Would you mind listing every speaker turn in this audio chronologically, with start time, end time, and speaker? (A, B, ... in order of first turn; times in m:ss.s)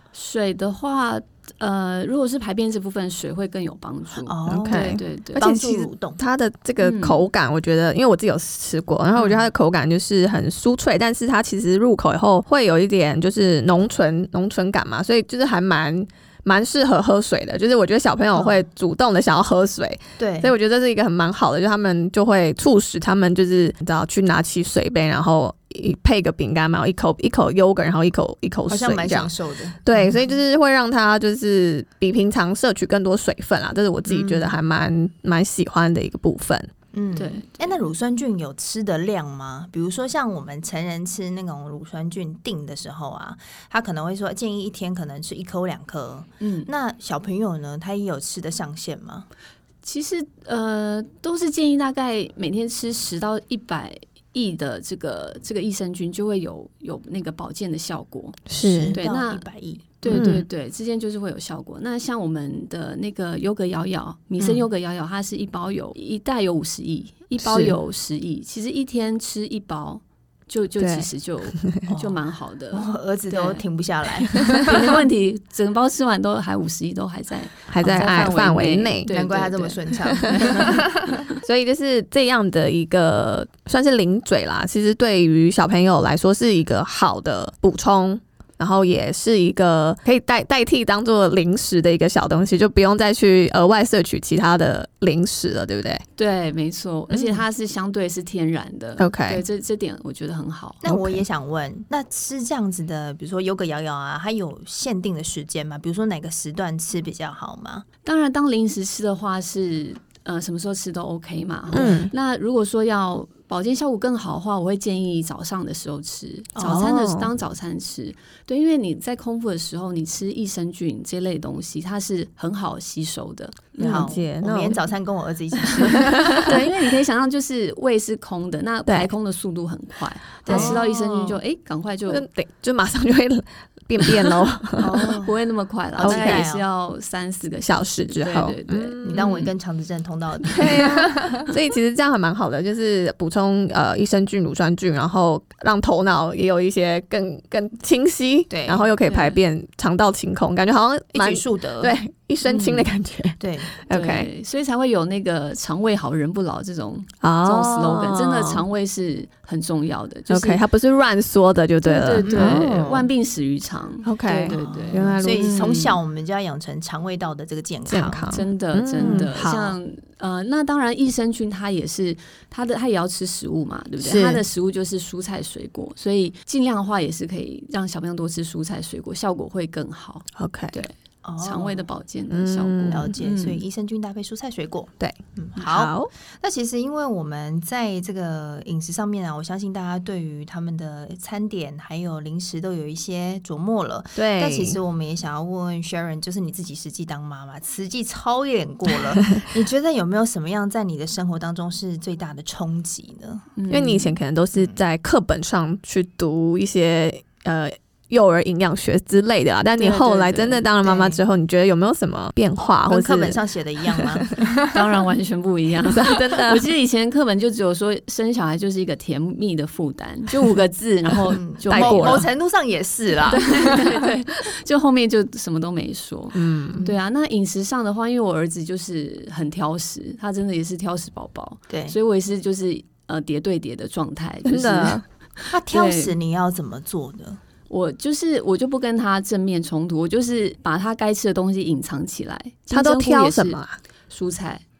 0:00.1-0:05.8 A
0:04.2-0:06.2 B
0:04.5-0:29.3 C
0:06.8-0:07.2 A
0:09.2-0:09.5 B
0:18.3-0:18.6 B
0:20.2-0:20.5 B
0:28.7-0:30.3 B
0:29.8-0:36.7 C
0:34.1-0:34.5 B
0:36.9-0:49.3 B
0:37.2-0:37.8 A
0:46.4-0:46.7 A
0:49.8-0:59.5 A
0:58.5-0:59.0 C
0:58.6-1:00.2 B
1:00.0-1:13.6 A
1:00.1-1:00.4 C
1:04.4-1:04.6 B
1:07.4-1:07.8 C
1:10.8-1:11.1 C
1:11.9-1:12.2 B
1:12.7-1:15.0 B
1:14.3-1:21.4 A
1:17.7-1:19.1 C
1:17.8-1:18.3 B
1:19.1-1:21.2 B
1:20.4-1:36.0 C
1:36.2-1:40.8 A
1:37.1-1:37.4 C
1:39.0-1:39.4 C
1:40.8-1:47.8 B
1:40.8-1:41.2 C
1:48.0-2:04.2 A
1:51.7-1:52.1 C
1:51.7-1:52.0 B
1:56.6-1:56.8 B
1:56.6-1:57.3 C
2:03.8-2:06.6 B
2:03.8-2:04.8 C
2:05.8-2:12.2 A
2:05.8-2:06.6 C
2:10.4-2:10.8 B
2:10.5-2:11.4 C
2:12.1-2:15.2 C
2:14.8-2:15.3 B
2:15.0-2:19.5 A
2:16.0-2:16.6 B
2:16.0-2:16.4 C
2:17.6-2:19.4 C
2:19.0-2:21.5 B
2:20.5-2:34.3 C
2:28.5-2:28.9 B
2:29.0-2:29.4 A
2:31.1-2:31.9 B
2:32.4-2:32.9 A
2:33.4-2:33.7 B
2:33.9-2:40.6 A
2:37.2-2:38.6 C
2:40.3-2:42.7 C
2:41.8-2:46.0 A
2:42.2-2:43.1 B
2:44.0-2:45.7 C
2:44.5-2:48.4 B
2:47.9-2:49.8 C
2:48.3-3:03.6 A
2:49.0-2:49.3 B
2:54.0-2:54.4 C
3:00.4-3:00.8 C
3:01.2-3:01.9 B
3:02.3-3:03.1 C
3:02.9-3:23.5 B
3:05.0-3:06.1 C
3:14.2-3:14.8 C
3:23.6-3:24.2 A
3:23.7-3:34.3 C
3:29.8-3:30.7 A
3:30.8-3:31.2 B
3:32.8-3:35.0 B
3:34.7-3:42.3 A
3:35.9-3:36.6 C
3:41.3-3:43.9 B
3:41.7-3:42.2 C
3:43.3-3:56.1 A
3:46.3-3:46.9 C
3:51.7-3:51.9 B
3:54.4-3:55.0 C
3:55.5-3:57.4 B
3:57.7-4:04.6 A
4:02.7-4:03.8 C